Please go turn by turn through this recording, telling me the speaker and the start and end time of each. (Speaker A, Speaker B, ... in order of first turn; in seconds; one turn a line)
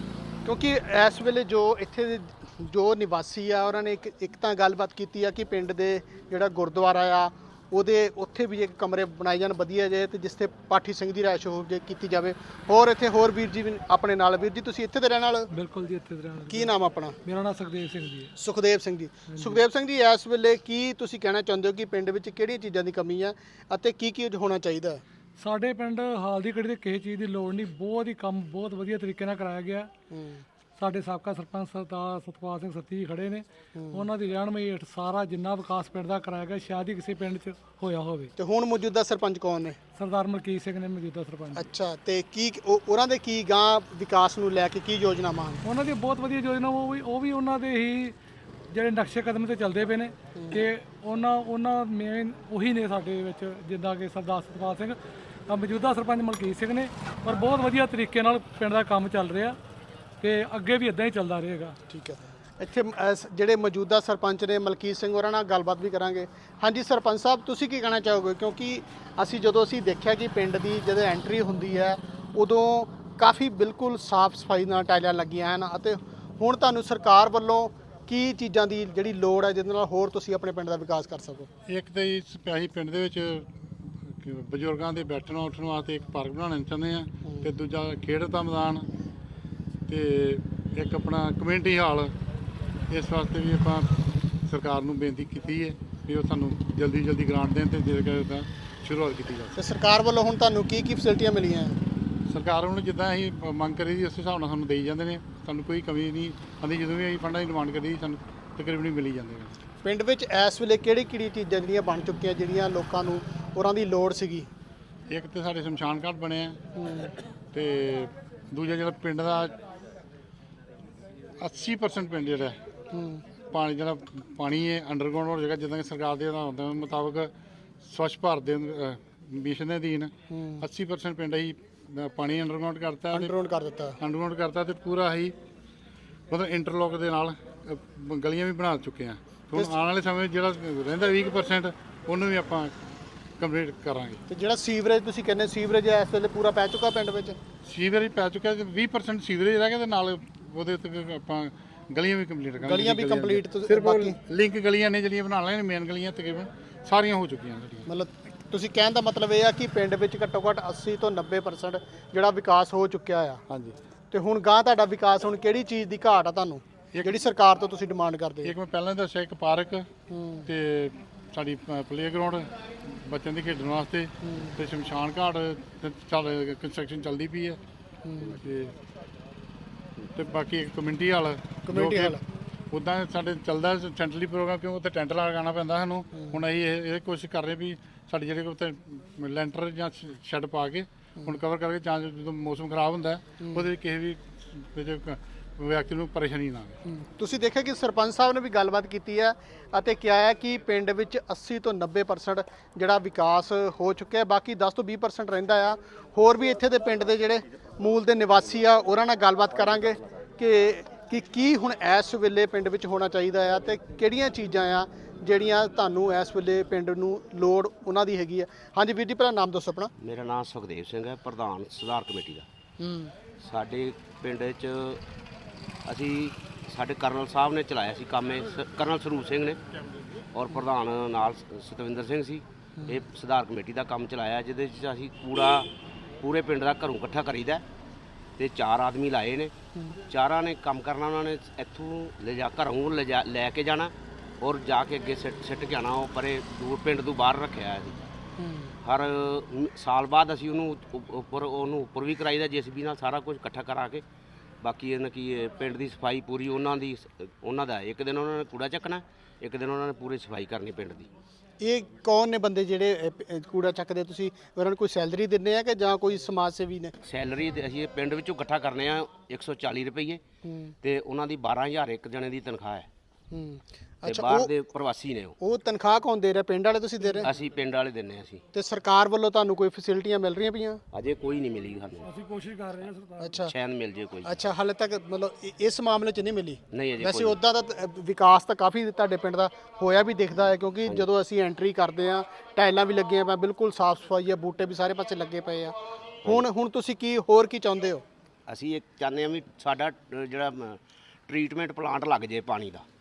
Speaker A: 0.4-15.5
Speaker B: 15.5-16.8
Speaker A: 16.5-17.2
Speaker B: 17.2-18.3
Speaker A: 18.4-25.0
Speaker B: 19.3-19.6
Speaker B: 25.4-29.9
Speaker A: 30.1-30.4
Speaker B: 30.8-38.3
Speaker A: 33.8-34.1
Speaker A: 38.4-39.8
Speaker B: 40.0-41.7
Speaker A: 41.5-45.6
Speaker B: 45.6-48.2
Speaker B: 48.7-55.0
Speaker A: 50.4-50.6
Speaker B: 55.5-59.6
Speaker B: 60.2-61.8
Speaker A: 61.9-81.5
Speaker C: 81.7-83.5
Speaker C: 84.1-88.9
Speaker A: 87.2-87.5
Speaker C: 89.9-92.1
Speaker C: 92.9-93.9
Speaker C: 94.5-99.6
Speaker A: 99.5-101.8
Speaker C: 102.3-109.5
Speaker A: 109.8-114.5
Speaker C: 115.1-116.6
Speaker A: 116.8-117.1
Speaker C: 117.5-119.6
Speaker C: 121.4-122.6
Speaker A: 122.9-123.2
Speaker C: 123.5-127.3
Speaker C: 127.8-133.3
Speaker A: 130.3-130.6
Speaker A: 133.1-134.0
Speaker C: 134.0-135.3
Speaker C: 136.3-142.7
Speaker C: 143.4-144.2
Speaker A: 144.3-147.4
Speaker C: 147.6-157.9
Speaker A: 152.6-154.2
Speaker A: 157.9-163.4
Speaker C: 163.5-163.8
Speaker A: 164.1-168.5
Speaker C: 166.9-167.2
Speaker C: 168.4-169.9
Speaker A: 170.1-170.5
Speaker C: 170.4-177.6
Speaker A: 174.2-174.6
Speaker A: 178.0-178.4
Speaker C: 178.3-178.7
Speaker C: 180.2-182.2
Speaker A: 181.7-182.2
Speaker C: 182.7-196.8
Speaker A: 186.1-186.4
Speaker A: 193.4-193.7
Speaker A: 196.9-219.9
Speaker D: 220.0-222.4
Speaker A: 222.8-223.1
Speaker D: 223.4-225.0
Speaker D: 225.9-229.6
Speaker D: 230.3-235.7
Speaker A: 232.8-233.0
Speaker D: 236.2-237.6
Speaker D: 238.4-239.5
Speaker D: 240.1-248.0
Speaker A: 248.4-248.8
Speaker D: 248.8-254.0
Speaker D: 254.6-261.1
Speaker A: 261.6-266.9
Speaker D: 267.0-270.2
Speaker A: 270.4-270.8
Speaker D: 270.8-272.9
Speaker A: 273.3-274.5
Speaker D: 274.1-275.4
Speaker A: 275.4-277.3
Speaker D: 277.2-278.4
Speaker A: 278.5-280.8
Speaker D: 280.9-282.1
Speaker B: 282.0-283.4
Speaker A: 283.2-283.5
Speaker D: 283.4-284.4
Speaker A: 284.2-298.0
Speaker D: 286.7-287.4
Speaker D: 298.5-302.9